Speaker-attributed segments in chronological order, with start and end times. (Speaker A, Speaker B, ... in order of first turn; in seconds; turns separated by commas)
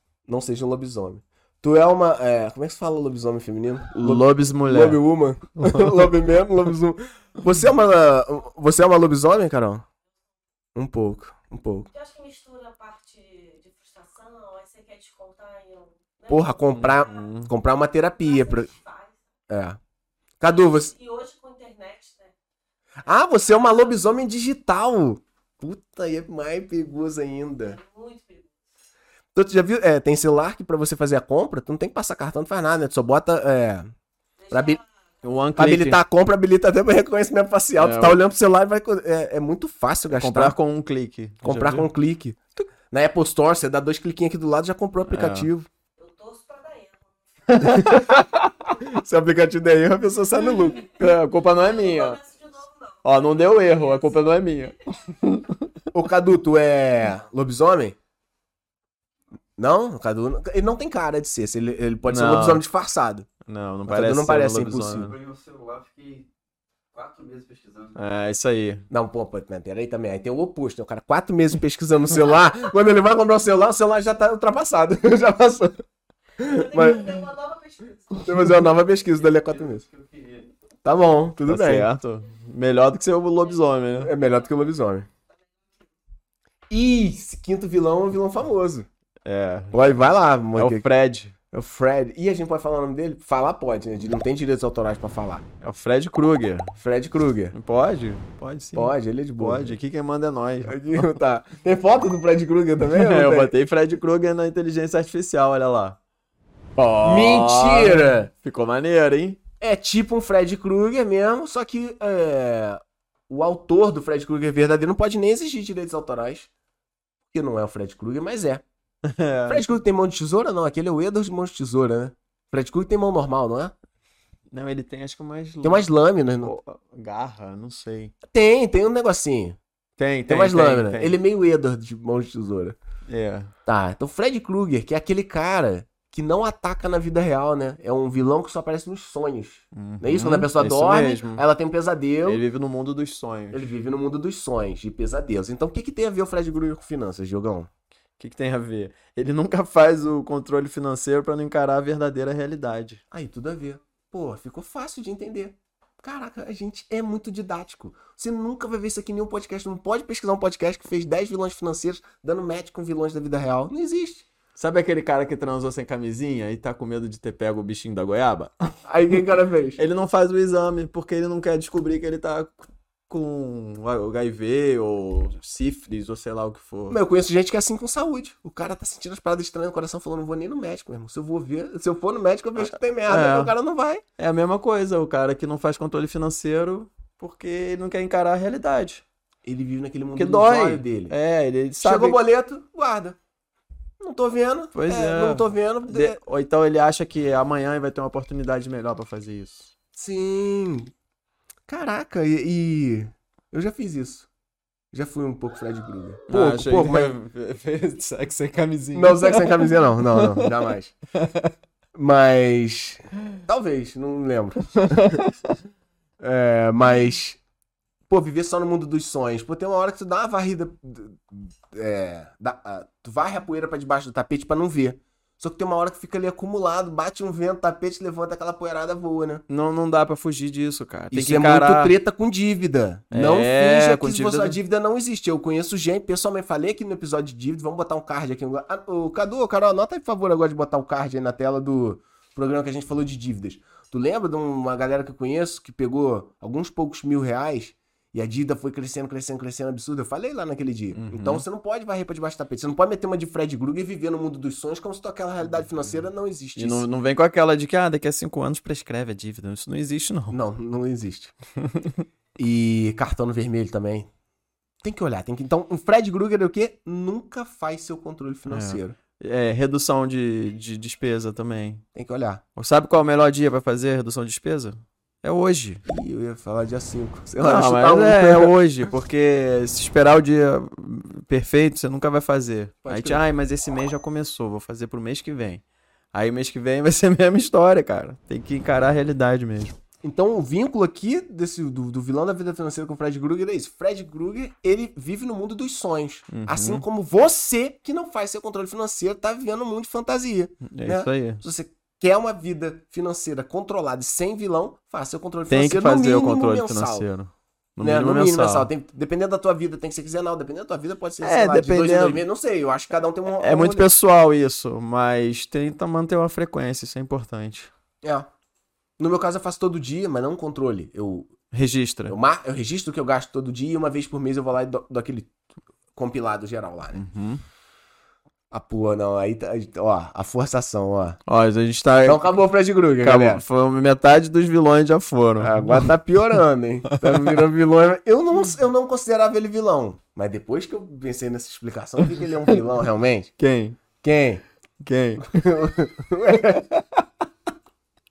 Speaker A: 0.3-9.8, Speaker B: 4.0-5.0, Speaker B: 5.6-6.1, Speaker A: 10.8-11.9, Speaker C: 11.9-17.3, Speaker A: 16.3-18.7, Speaker B: 16.8-17.5, Speaker C: 18.2-19.2, Speaker A: 19.5-19.8, Speaker A: 20.4-20.9, Speaker C: 20.4-22.3, Speaker A: 23.0-27.8, Speaker C: 23.1-23.9, Speaker C: 27.6-28.5, Speaker A: 29.3-33.9, Speaker C: 34.4-34.9, Speaker A: 34.5-34.8, Speaker B: 35.2-36.0, Speaker A: 35.6-40.6, Speaker B: 37.8-38.2, Speaker B: 40.1-41.9, Speaker A: 41.4-45.7, Speaker B: 45.1-45.5, Speaker C: 46.0-47.6, Speaker B: 47.5-48.5, Speaker A: 47.6-48.2, Speaker A: 48.8-50.9, Speaker C: 50.6-55.0, Speaker B: 50.9-52.2, Speaker B: 53.0-55.7, Speaker A: 55.9-58.0, Speaker A: 59.6-63.3, Speaker B: 62.0-62.6, Speaker B: 63.5-65.1, Speaker A: 63.9-65.1, Speaker D: 65.0-66.3, Speaker D: 66.9-68.0, Speaker B: 68.0-68.9, Speaker A: 68.9-75.8, Speaker A: 76.4-77.2, Speaker C: 76.4-78.4, Speaker A: 78.2-79.8, Speaker D: 79.2-80.5, Speaker A: 80.8-81.9, Speaker B: 81.5-84.1, Speaker A: 84.0-85.1, Speaker A: 86.7-88.9, Speaker B: 89.2-89.9, Speaker A: 89.7-90.9, Speaker B: 90.6-91.3, Speaker A: 91.5-95.4, Speaker B: 95.6-96.8, Speaker A: 96.8-97.6, Speaker B: 97.5-101.2, Speaker A: 98.8-99.8, Speaker A: 100.7-103.5, Speaker B: 102.8-106.0, Speaker B: 106.8-109.4, Speaker A: 107.0-108.3, Speaker A: 109.6-116.5, Speaker A: 117.3-118.6, Speaker B: 119.0-119.7, Speaker A: 119.5-123.7, Speaker B: 124.5-125.9, Speaker A: 125.6-126.6, Speaker B: 126.4-128.1, Speaker A: 128.3-129.6, Speaker B: 130.0-131.2, Speaker A: 130.3-132.8, Speaker B: 133.1-133.5, Speaker A: 133.7-142.4, Speaker B: 139.7-141.4, Speaker B: 142.3-143.7, Speaker A: 143.5-147.7, Speaker B: 148.2-153.0, Speaker A: 153.1-164.3, Speaker B: 164.6-168.5, Speaker A: 168.9-169.8, Speaker B: 169.8-177.0, Speaker A: 176.9-184.0, Speaker B: 182.6-183.5, Speaker B: 184.2-189.0, Speaker A: 189.4-191.2, Speaker B: 190.2-192.2, Speaker A: 191.8-193.2, Speaker A: 194.0-196.2, Speaker B: 194.7-199.7, Speaker A: 199.9-200.9, Speaker A: 201.7-204.3, Speaker A: 204.9-207.2, Speaker B: 206.3-210.5, Speaker A: 208.9-210.9, Speaker B: 211.2-211.5, Speaker A: 211.9-215.2, Speaker B: 214.8-215.5, Speaker A: 216.2-217.4, Speaker A: 218.1-229.4, Speaker B: 229.5-232.0, Speaker A: 231.1-256.9, Speaker B: 233.1-234.6, Speaker B: 250.9-251.4, Speaker B: 256.6-260.4, Speaker A: 260.3-261.3, Speaker B: 261.6-262.0, Speaker A: 262.4-264.1, Speaker A: 264.8-269.0, Speaker B: 268.5-271.9, Speaker A: 271.9-272.4, Speaker B: 272.6-275.8, Speaker A: 275.9-278.5, Speaker B: 277.4-289.8, Speaker A: 282.8-283.2, Speaker A: 290.0-307.1, Speaker B: 296.3-296.9, Speaker B: 300.7-301.4, Speaker B: 305.5-308.7, Speaker A: 307.8-313.9, Speaker B: 311.2-312.2, Speaker B: 313.4-317.7, Speaker A: 318.0-318.3, Speaker A: 319.0-321.4, Speaker B: 321.5-322.2, Speaker A: 322.1-325.3, Speaker A: 325.9-327.0, Speaker B: 326.9-327.4, Speaker A: 328.5-331.2, Speaker B: 331.3-332.3, Speaker A: 332.1-333.4, Speaker B: 333.0-335.9, Speaker A: 335.4-343.3, Speaker B: 337.0-337.4, Speaker B: 343.4-343.8, Speaker A: 344.0-344.4, Speaker B: 344.8-345.3, Speaker A: 345.2-346.7